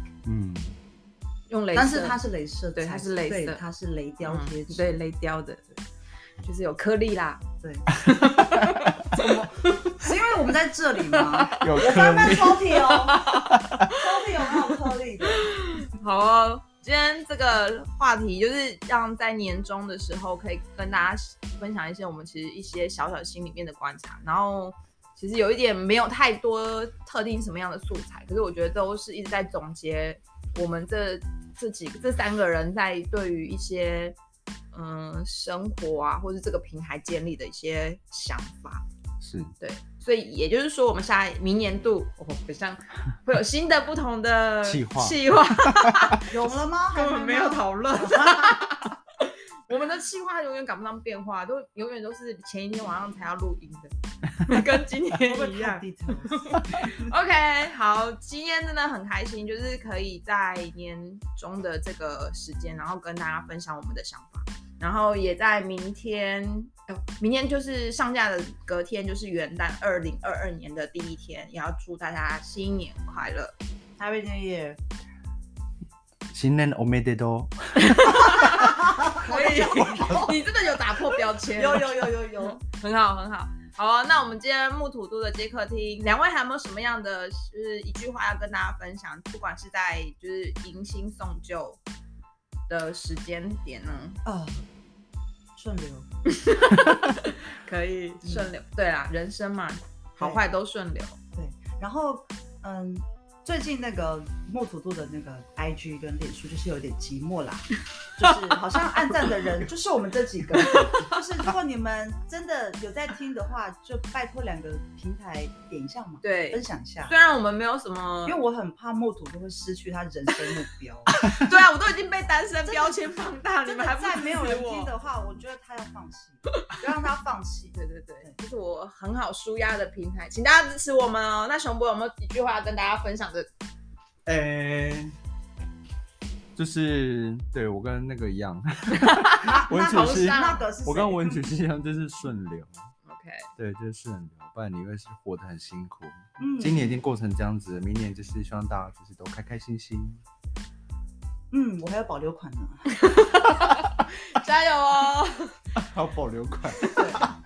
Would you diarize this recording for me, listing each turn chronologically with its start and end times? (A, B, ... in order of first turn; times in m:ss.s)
0:00.3-0:00.8 A
0:01.5-0:02.2 B
0:01.7-0:05.0 C
0:02.8-0:03.6 B
0:04.3-0:05.7 B
0:06.4-0:07.4 B
0:07.6-0:07.9 C
0:08.0-0:08.9 A
0:08.2-0:09.9 B
0:09.2-0:09.5 C
0:10.0-0:13.3 C
0:11.2-0:11.6 B
0:11.6-0:13.9 A
0:13.2-0:13.5 B
0:13.9-0:15.5 C
0:15.4-0:34.2 B
0:34.7-0:38.8 B
0:39.2-0:39.5 A
0:39.6-0:46.3 B
0:44.6-0:45.2 A
0:46.3-0:48.7 C
0:46.9-1:13.5 B
0:55.2-0:57.0 C
1:14.0-1:14.8 C
1:16.3-1:18.0 A
1:17.8-1:31.8 B
1:18.2-1:20.4 C
1:21.5-1:22.6 C
1:32.7-1:34.2 B
1:34.2-1:34.6 C
1:35.6-1:36.1 C
1:36.3-1:41.2 B
1:38.2-1:38.5 C
1:41.4-1:57.1 C
1:50.6-1:51.1 B
1:56.2-1:58.4 B
1:58.3-2:01.1 C
2:01.1-2:04.9 B
2:02.6-2:03.0 C
2:03.6-2:08.4 C
2:07.8-2:13.5 B
2:14.3-2:15.1 A
2:16.6-2:22.9 A
2:19.1-2:20.6 B
2:19.4-2:21.4 C
2:23.0-2:23.5 B
2:23.6-2:30.2 A
2:26.4-2:27.0 C
2:31.5-2:32.9 C
2:32.9-2:35.6 B
2:35.8-2:37.3 A
2:37.0-2:37.2 C